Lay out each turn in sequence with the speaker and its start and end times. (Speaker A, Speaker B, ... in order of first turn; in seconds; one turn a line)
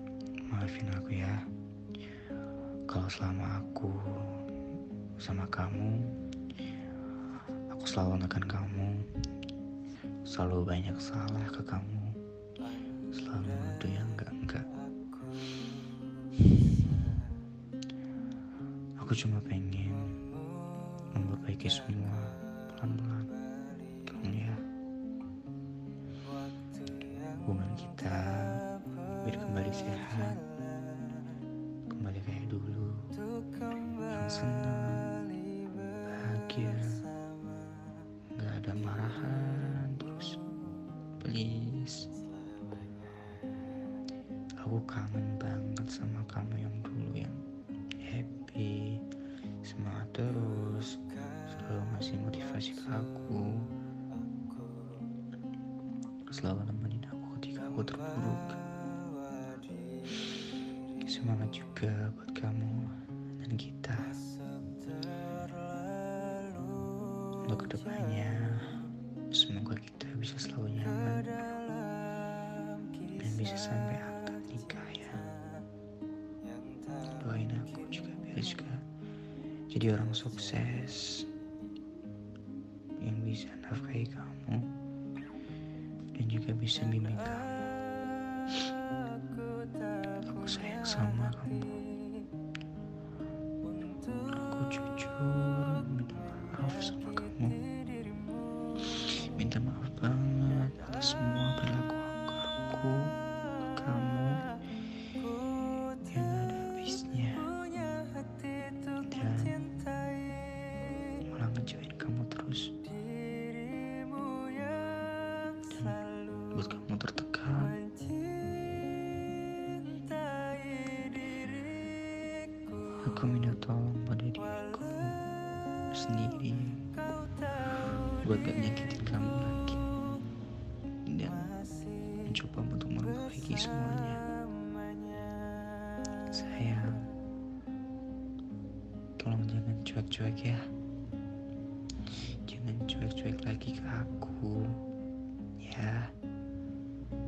Speaker A: 0.5-1.4
Speaker A: 2.9-4.4
Speaker A: 5.2-6.1
Speaker A: 7.7-9.1
Speaker A: 10.3-12.2
Speaker A: 13.1-14.8
Speaker A: 19.0-20.2
Speaker A: 21.0-23.3
Speaker A: 24.0-24.6
Speaker A: 27.4-30.4
Speaker A: 31.9-33.1
Speaker A: 34.0-35.2
Speaker A: 36.0-37.1
Speaker A: 38.3-40.4
Speaker A: 41.2-42.1
Speaker A: 44.6-47.4
Speaker A: 48.0-49.0
Speaker A: 49.6-53.7
Speaker A: 56.3-58.6
Speaker A: 60.9-64.2
Speaker A: 67.4-71.4
Speaker A: 73.1-75.3
Speaker A: 77.0-78.9
Speaker A: 79.7-81.3
Speaker A: 83.0-84.7
Speaker A: 86.1-87.7
Speaker A: 90.2-91.8
Speaker A: 94.3-97.6
Speaker A: 98.8-104.5
Speaker A: 105.9-107.5
Speaker A: 109.0-109.8
Speaker A: 111.1-112.8
Speaker A: 115.6-117.8
Speaker A: 122.9-125.2
Speaker A: 125.9-126.9
Speaker A: 128.1-130.0
Speaker A: 131.1-131.5
Speaker A: 132.2-134.3
Speaker A: 136.2-137.1
Speaker A: 139.2-140.6
Speaker A: 142.5-144.8
Speaker A: 145.6-146.1